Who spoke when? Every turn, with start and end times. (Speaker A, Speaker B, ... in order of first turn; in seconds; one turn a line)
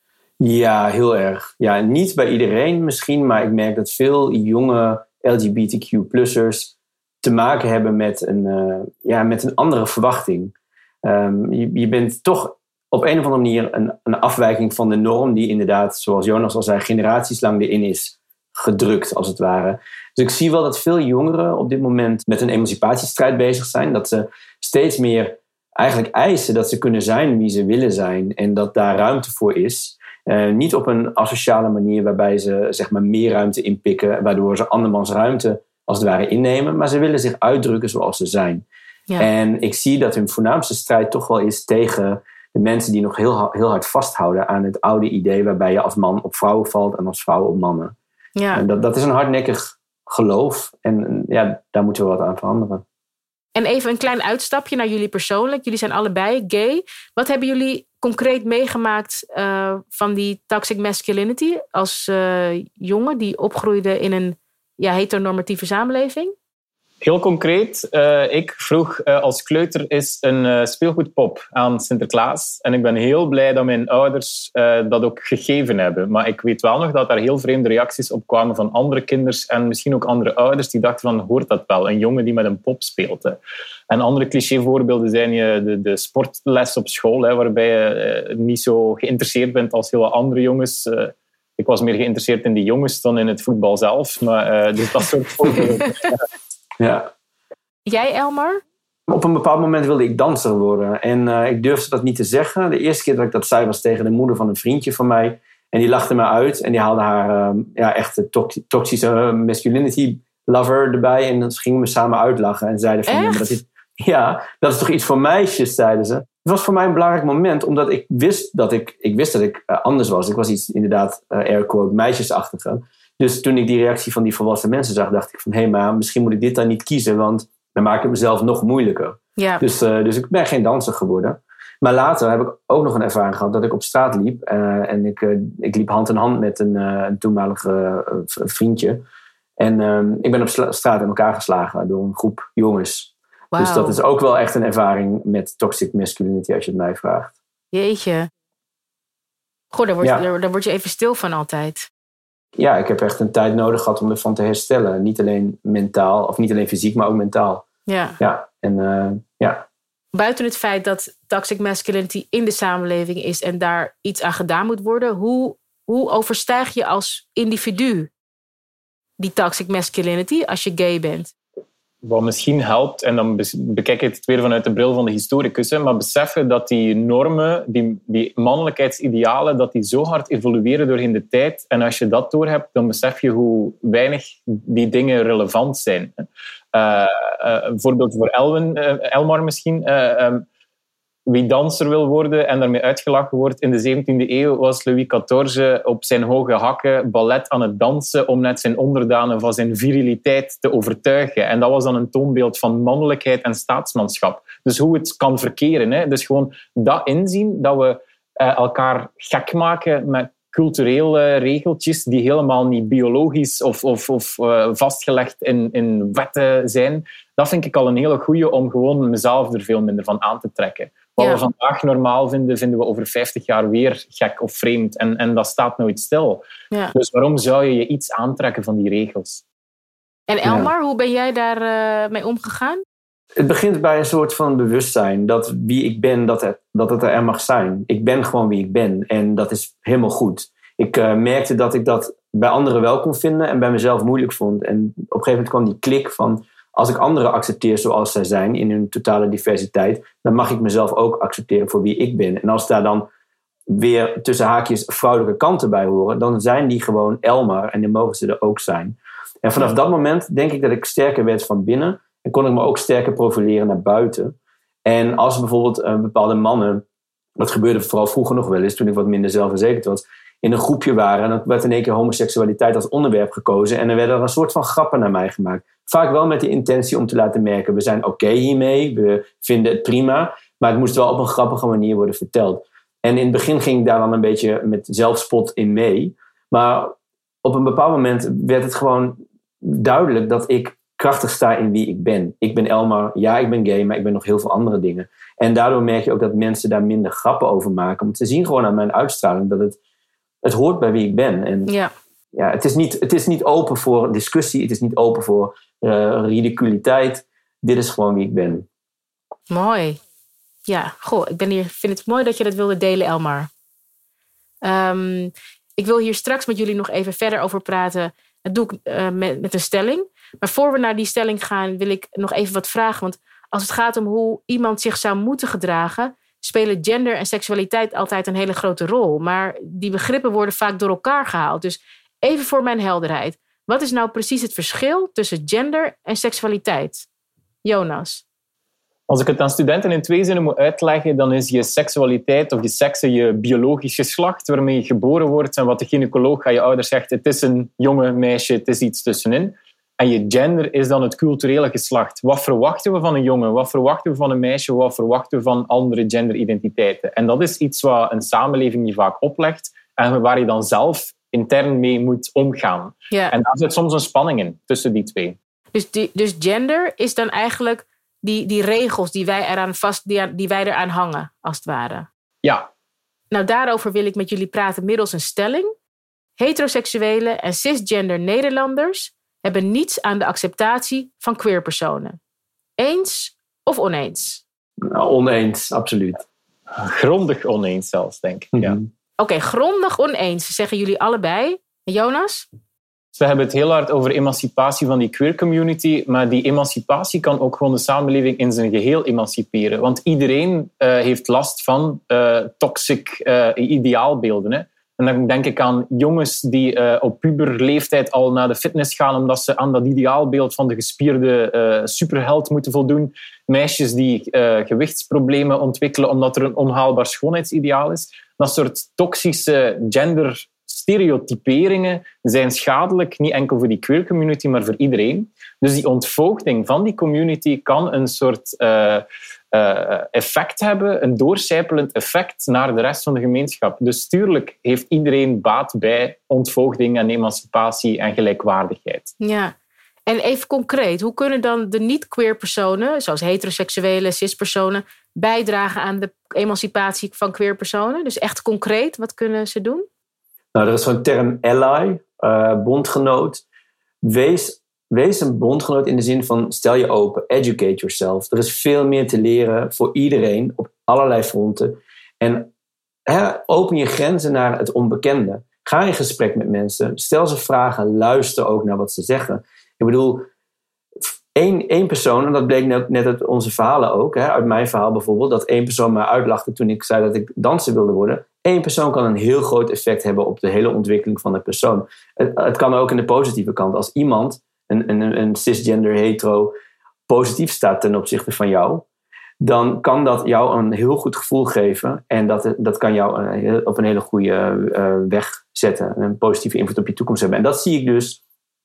Speaker A: 0.4-38.6
Speaker A: 39.2-47.9
Speaker B: 48.4-48.6
Speaker A: 48.5-52.8
Speaker B: 53.5-66.3
Speaker C: 67.0-83.4
Speaker C: 83.9-96.2
Speaker A: 96.8-97.1
Speaker B: 97.9-98.6
Speaker A: 99.1-139.0
Speaker B: 113.1-113.5
Speaker B: 129.4-129.6
Speaker A: 139.6-147.3
Speaker B: 143.5-144.0
Speaker B: 147.7-148.3
Speaker B: 149.7-151.9
Speaker A: 152.6-157.7
Speaker B: 157.9-158.2
Speaker A: 158.2-159.6
Speaker B: 160.1-168.1
Speaker B: 169.2-171.3
Speaker C: 172.0-190.4
Speaker C: 191.3-226.4
Speaker B: 221.2-221.4
Speaker C: 226.9-229.4
Speaker B: 230.3-232.8
Speaker A: 230.4-230.7
Speaker A: 233.4-253.1
Speaker A: 253.7-266.9
Speaker A: 267.4-299.8
Speaker A: 300.4-301.7
Speaker A: 302.4-308.7
Speaker B: 309.5-310.0
Speaker B: 310.7-313.5
Speaker B: 314.6-337.1
Speaker B: 337.6-338.2
Speaker C: 339.1-365.4
Speaker B: 363.1-363.4
Speaker B: 365.7-372.1
Speaker B: 373.3-375.7
Speaker B: 376.4-382.2
Speaker B: 382.8-384.4
Speaker A: 384.9-386.2
Speaker C: 386.7-388.8
Speaker A: 388.6-388.9
Speaker B: 389.2-392.5
Speaker C: 393.1-439.1
Speaker B: 439.2-439.5
Speaker B: 440.1-449.9
Speaker A: 450.5-453.4
Speaker A: 454.0-462.5
Speaker A: 463.1-470.3
Speaker A: 471.4-486.5
Speaker A: 487.1-488.9
Speaker A: 489.4-498.2